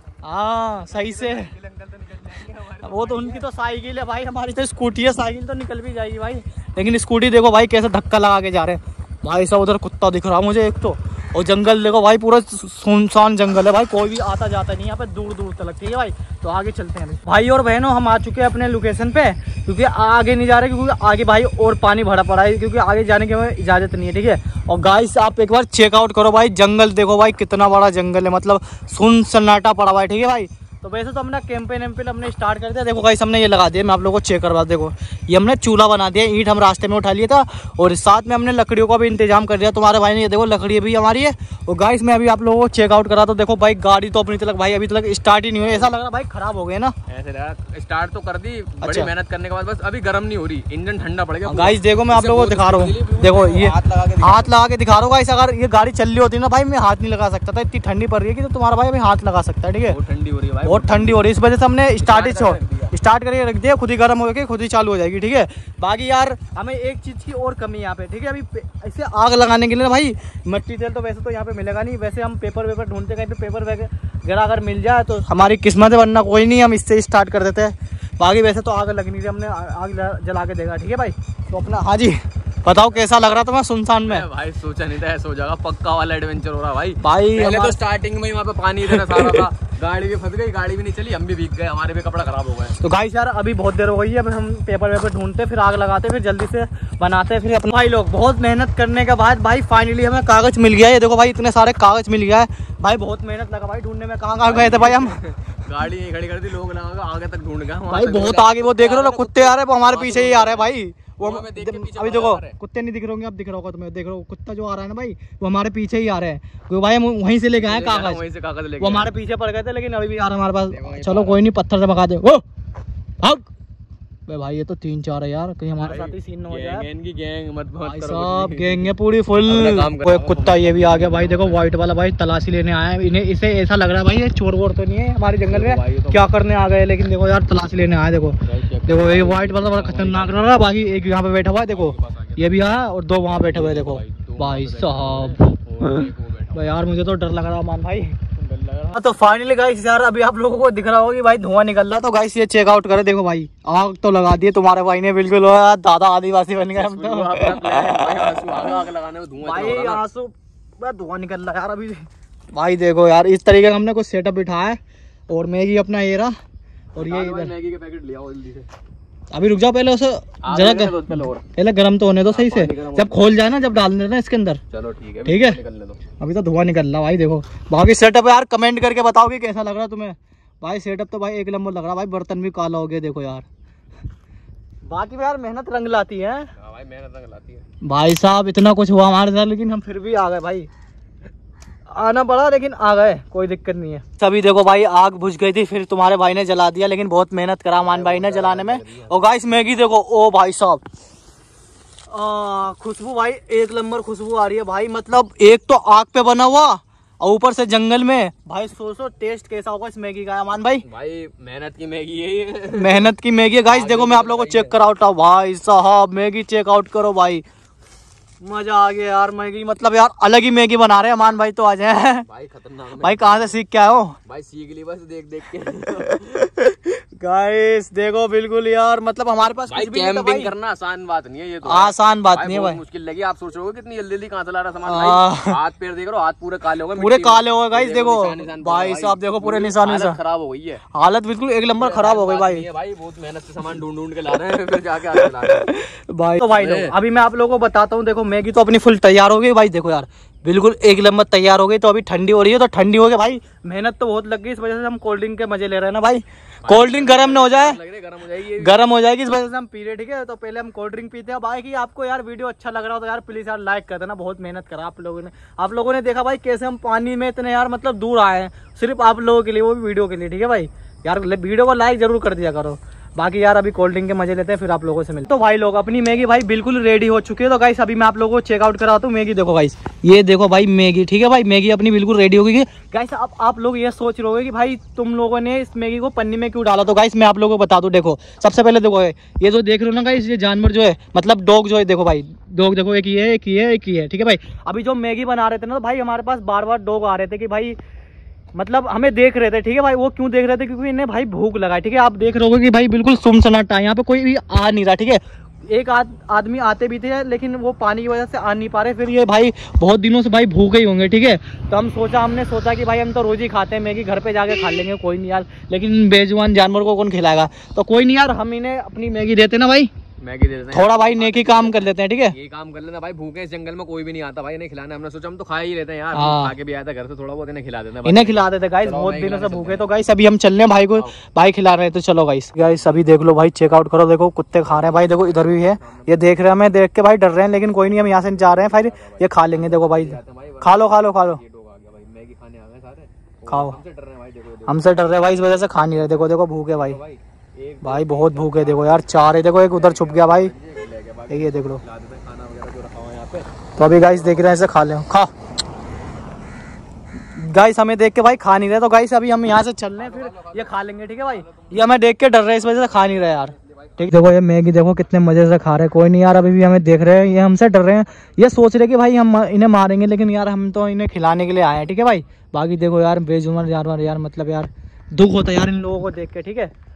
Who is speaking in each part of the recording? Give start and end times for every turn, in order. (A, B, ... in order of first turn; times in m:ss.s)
0:00.2-0:01.5 A
0:00.8-0:03.4 B
0:02.8-0:46.9 A
0:45.6-0:45.9 B
0:47.1-0:54.5 B
0:48.8-0:49.1 A
0:51.4-1:00.0 A
0:59.8-1:01.2 B
1:00.6-1:24.2 A
1:02.0-1:02.9 B
1:22.7-1:23.3 B
1:24.0-1:32.8 B
1:27.0-1:27.8 A
1:28.9-1:29.4 A
1:32.8-1:45.2 A
1:44.4-1:52.6 B
1:47.9-1:58.2 A
1:57.6-1:59.1 B
1:58.8-2:02.4 A
2:00.7-2:01.4 B
2:03.2-2:03.5 A
2:04.3-2:06.8 A
2:05.8-2:11.7 B
2:07.8-2:25.4 A
2:15.5-2:16.2 B
2:18.4-2:22.7 B
2:23.4-2:26.8 B
2:26.5-2:28.2 A
2:28.3-2:29.1 B
2:28.9-2:38.6 A
2:36.6-2:40.0 B
2:39.4-2:46.3 A
2:47.0-2:47.5 A
2:47.0-2:48.7 B
2:49.3-2:54.6 A
2:50.4-2:51.4 B
2:52.2-2:53.3 B
2:54.7-2:56.0 B
2:55.2-2:55.6 A
2:56.2-3:03.4 A
3:04.9-3:06.5 A
3:06.6-3:07.6 B
3:07.8-3:10.7 A
3:11.9-3:20.8 A
3:17.8-3:19.1 B
3:22.1-3:30.8 A
3:30.8-3:33.1 B
3:32.8-3:37.4 A
3:33.6-3:34.8 B
3:38.4-3:42.2 A
3:42.3-3:43.5 B
3:43.0-3:44.2 A
3:44.2-3:46.5 B
3:46.4-3:50.5 A
3:49.7-4:00.8 B
3:51.6-3:52.8 A
3:54.8-3:55.6 A
3:57.0-4:00.2 A
4:00.9-4:02.6 A
4:01.8-4:05.7 B
4:05.5-4:17.8 A
4:06.5-4:07.0 B
4:16.6-4:18.9 B
4:18.6-4:57.8 A
4:58.6-5:19.9 A
5:20.2-5:29.9 B
5:20.7-5:22.3 A
5:26.1-5:26.5 A
5:28.0-5:41.4 A
5:32.6-5:33.1 B
5:34.6-5:36.6 B
5:37.4-5:54.7 B
5:43.5-5:43.8 A
5:44.7-5:47.0 A
5:47.8-5:50.5 A
5:51.3-5:51.8 A
5:53.8-5:55.3 A
5:57.4-6:16.7 A
5:59.9-6:02.0 B
6:03.3-6:04.1 B